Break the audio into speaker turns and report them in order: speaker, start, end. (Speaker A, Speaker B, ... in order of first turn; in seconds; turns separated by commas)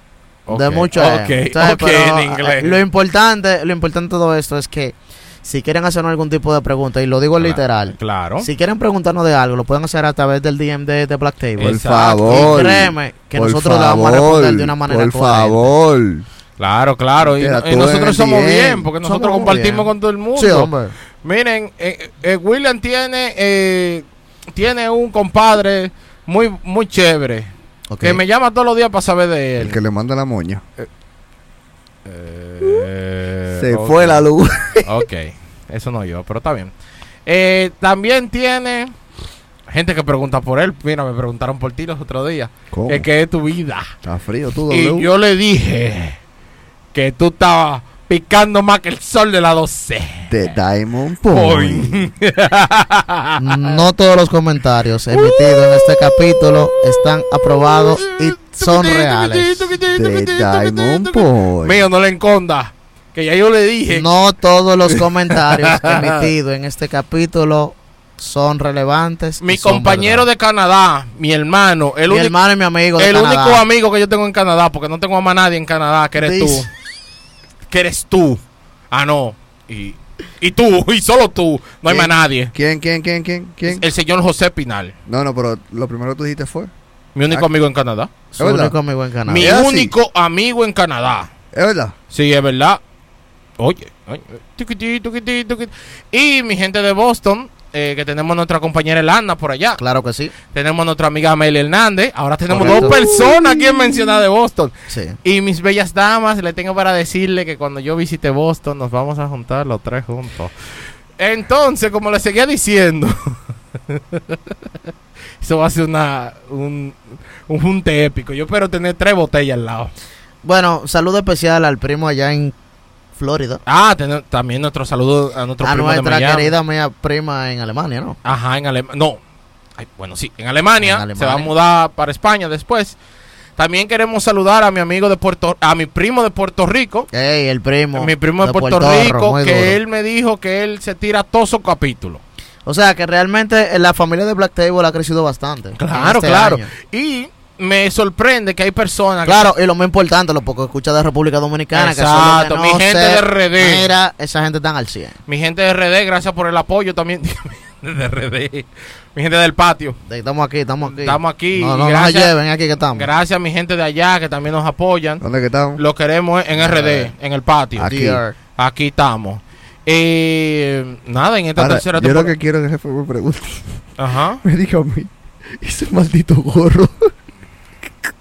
Speaker A: 0.5-2.8, Speaker B: 0.5-15.7, Speaker A: 7.4-8.5, Speaker A: 11.6-12.6, Speaker C: 11.6-16.2, Speaker A: 16.6-27.5, Speaker C: 17.2-18.9, Speaker B: 19.0-20.9, Speaker B: 27.9-28.2, Speaker A: 28.0-29.8, Speaker C: 29.6-30.6, Speaker A: 32.0-34.2, Speaker C: 33.5-35.0, Speaker A: 34.9-36.7, Speaker A: 37.2-38.9, Speaker A: 39.7-43.9, Speaker C: 42.7-43.1, Speaker C: 44.0-45.1, Speaker A: 44.7-46.2, Speaker A: 46.9-50.5, Speaker C: 50.3-52.1, Speaker A: 51.3-53.7, Speaker B: 53.4-59.8, Speaker A: 55.1-64.1, Speaker C: 59.9-61.9, Speaker B: 63.9-70.3, Speaker A: 65.6-66.2, Speaker A: 69.4-72.3, Speaker B: 72.1-73.6, Speaker A: 73.0-76.7, Speaker B: 76.2-76.7, Speaker A: 77.7-78.4, Speaker A: 78.9-82.5, Speaker B: 81.9-82.1, Speaker C: 82.5-83.8, Speaker A: 83.6-84.9, Speaker C: 85.1-86.7, Speaker A: 87.1-88.1, Speaker B: 88.3-89.5, Speaker C: 88.4-88.7, Speaker A: 89.3-91.3, Speaker C: 89.3-89.9, Speaker C: 91.5-91.9, Speaker A: 92.1-92.8, Speaker A: 93.6-99.8, Speaker B: 99.8-100.3, Speaker A: 100.5-104.7, Speaker C: 102.5-103.9, Speaker B: 102.5-103.0, Speaker B: 104.9-105.2, Speaker A: 105.2-110.5, Speaker A: 111.2-114.9, Speaker A: 115.4-119.9, Speaker B: 120.4-122.5, Speaker B: 123.2-123.6, Speaker A: 123.7-126.5, Speaker B: 125.6-128.2, Speaker A: 128.2-129.2, Speaker A: 129.8-133.0, Speaker B: 130.8-131.5, Speaker A: 133.6-137.1, Speaker B: 137.1-139.8, Speaker A: 137.9-142.2, Speaker B: 142.7-146.7, Speaker A: 145.8-149.5, Speaker B: 149.2-155.2, Speaker A: 151.7-153.9, Speaker A: 155.2-160.0, Speaker B: 160.1-163.1, Speaker A: 160.8-162.3, Speaker A: 162.9-165.2, Speaker C: 165.2-165.8, Speaker A: 165.8-167.9, Speaker B: 166.5-167.1, Speaker B: 167.8-168.3, Speaker C: 167.8-168.2, Speaker A: 168.6-172.3, Speaker C: 171.6-173.9, Speaker A: 174.0-174.4, Speaker C: 174.4-177.1